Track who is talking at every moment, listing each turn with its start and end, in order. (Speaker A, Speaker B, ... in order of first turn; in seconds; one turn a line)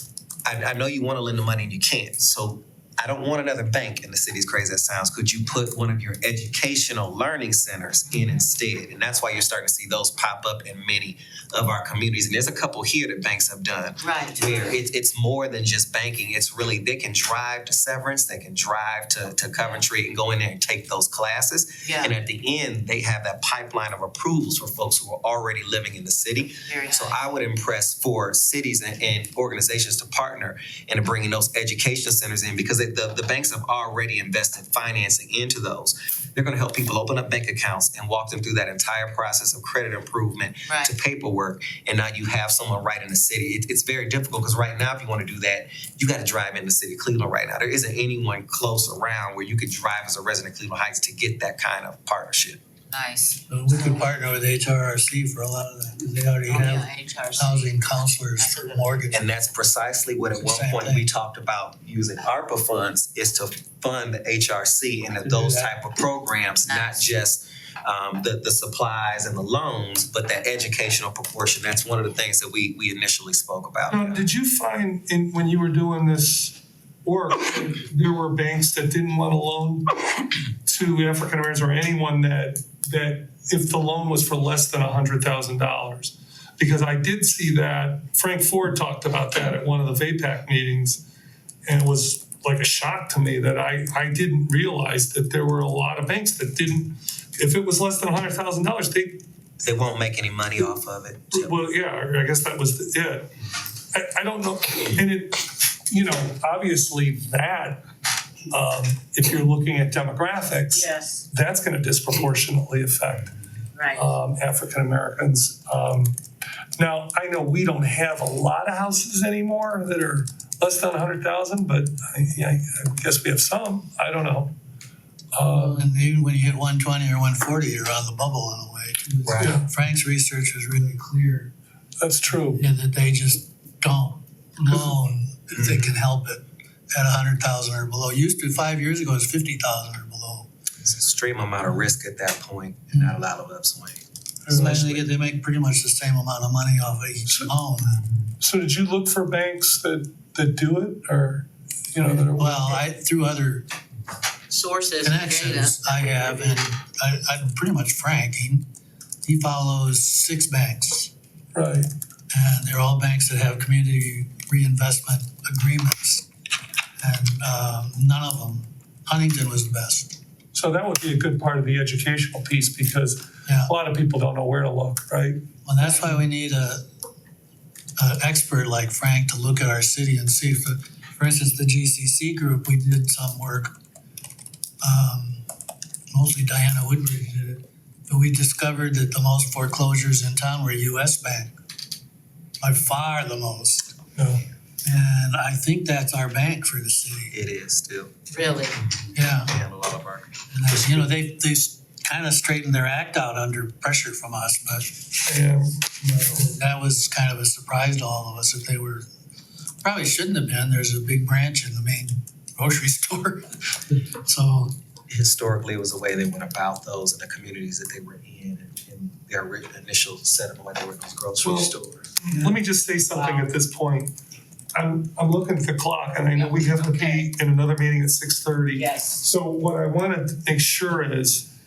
Speaker A: 0.5-52.6
Speaker B: 8.1-8.4
Speaker B: 14.0-14.8
Speaker B: 21.8-22.1
Speaker B: 26.6-27.2
Speaker B: 40.7-40.9
Speaker B: 52.9-54.0
Speaker C: 53.5-59.3
Speaker B: 56.5-59.1
Speaker A: 59.1-74.2
Speaker C: 60.3-61.0
Speaker C: 65.2-65.7
Speaker B: 66.7-67.1
Speaker D: 73.9-79.9
Speaker D: 80.7-91.0
Speaker D: 91.7-99.2
Speaker A: 99.6-101.5
Speaker D: 101.3-103.3
Speaker D: 103.9-107.8
Speaker D: 108.5-113.3
Speaker B: 110.7-111.3
Speaker B: 113.8-114.2
Speaker D: 113.9-116.2
Speaker D: 116.8-124.5
Speaker D: 125.3-125.8
Speaker C: 125.5-131.5
Speaker A: 129.2-129.6
Speaker D: 129.4-129.7
Speaker D: 132.0-132.6
Speaker C: 132.4-140.5
Speaker A: 135.5-135.9
Speaker A: 140.8-144.0
Speaker C: 142.9-143.2
Speaker C: 144.5-148.0
Speaker D: 144.5-145.0
Speaker A: 144.6-145.0
Speaker D: 148.4-152.8
Speaker C: 152.0-153.7
Speaker B: 154.5-156.7
Speaker C: 155.0-158.6
Speaker C: 159.2-161.1
Speaker D: 161.6-161.9
Speaker C: 162.3-166.2
Speaker C: 167.0-170.2
Speaker D: 170.5-175.4
Speaker C: 173.5-173.7
Speaker C: 175.7-176.8
Speaker C: 178.0-183.8
Speaker C: 184.8-185.4
Speaker C: 186.1-191.5
Speaker C: 192.6-193.9
Speaker D: 194.2-194.4
Speaker C: 194.8-197.3
Speaker A: 197.3-198.2
Speaker B: 198.3-198.8
Speaker A: 198.8-201.1
Speaker C: 199.2-199.6
Speaker C: 200.5-205.0
Speaker D: 205.3-206.4
Speaker C: 206.0-209.1
Speaker C: 209.8-214.7
Speaker A: 215.1-222.1
Speaker D: 221.4-224.1
Speaker B: 223.1-223.5
Speaker D: 224.8-231.5
Speaker B: 226.3-227.3
Speaker B: 228.8-229.2